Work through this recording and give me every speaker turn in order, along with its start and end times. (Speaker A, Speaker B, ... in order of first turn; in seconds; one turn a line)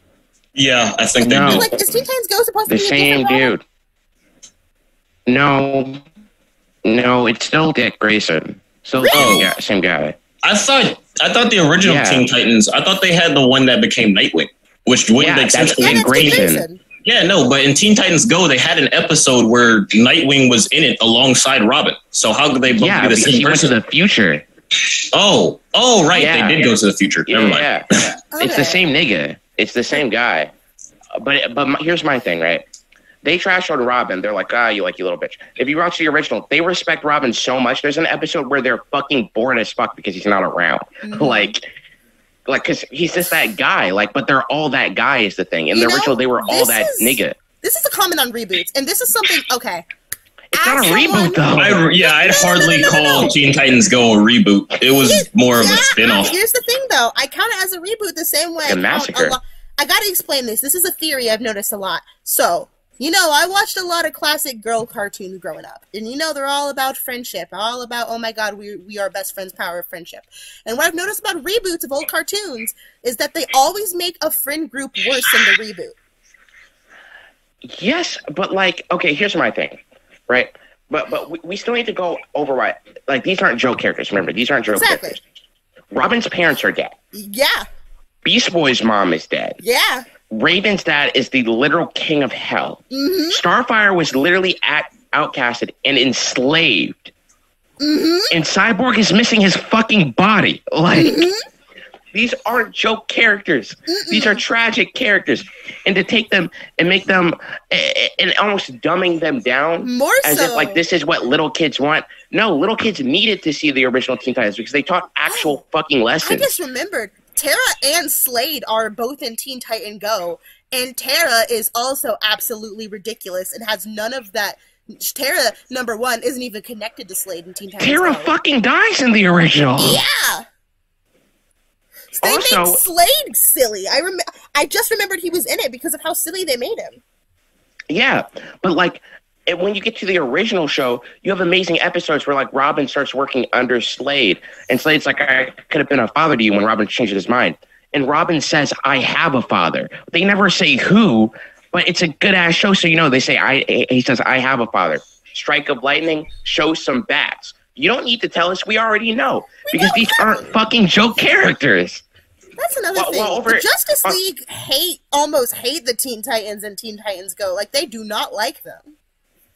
Speaker A: 0.5-1.7
Speaker B: 1.2-1.7
Speaker C: 1.2-3.5
Speaker B: 2.7-3.6
Speaker B: 5.3-6.0
Speaker B: 6.8-10.2
Speaker C: 9.0-9.5
Speaker A: 9.1-9.5
Speaker A: 10.4-16.5
Speaker B: 11.8-12.3
Speaker B: 15.2-16.6
Speaker C: 15.8-16.8
Speaker A: 17.0-23.7
Speaker B: 22.8-24.4
Speaker A: 25.1-27.7
Speaker B: 26.1-26.7
Speaker B: 27.3-30.5
Speaker C: 28.3-28.8
Speaker B: 31.1-32.6
Speaker B: 33.2-41.7
Speaker C: 41.0-41.5
Speaker B: 42.5-47.4
Speaker C: 45.7-49.9
Speaker C: 50.5-53.4
Speaker B: 50.5-51.8
Speaker A: 51.6-56.4
Speaker C: 54.9-76.0
Speaker B: 58.7-59.4
Speaker B: 77.7-85.2
Speaker C: 84.7-85.2
Speaker B: 85.9-86.9
Speaker C: 87.1-87.7
Speaker B: 88.2-89.6
Speaker C: 89.6-90.1
Speaker B: 90.3-97.1
Speaker C: 92.9-93.4
Speaker C: 97.8-98.4
Speaker B: 98.3-101.3
Speaker C: 101.0-101.4
Speaker B: 102.1-116.5
Speaker C: 103.9-104.4
Speaker C: 109.8-110.8
Speaker C: 115.3-115.6
Speaker C: 116.2-128.3
Speaker B: 127.8-130.0
Speaker C: 129.8-130.5
Speaker C: 132.1-137.0
Speaker B: 132.2-132.8
Speaker B: 137.9-162.0
Speaker C: 159.6-160.6
Speaker C: 162.6-168.9
Speaker B: 162.9-164.2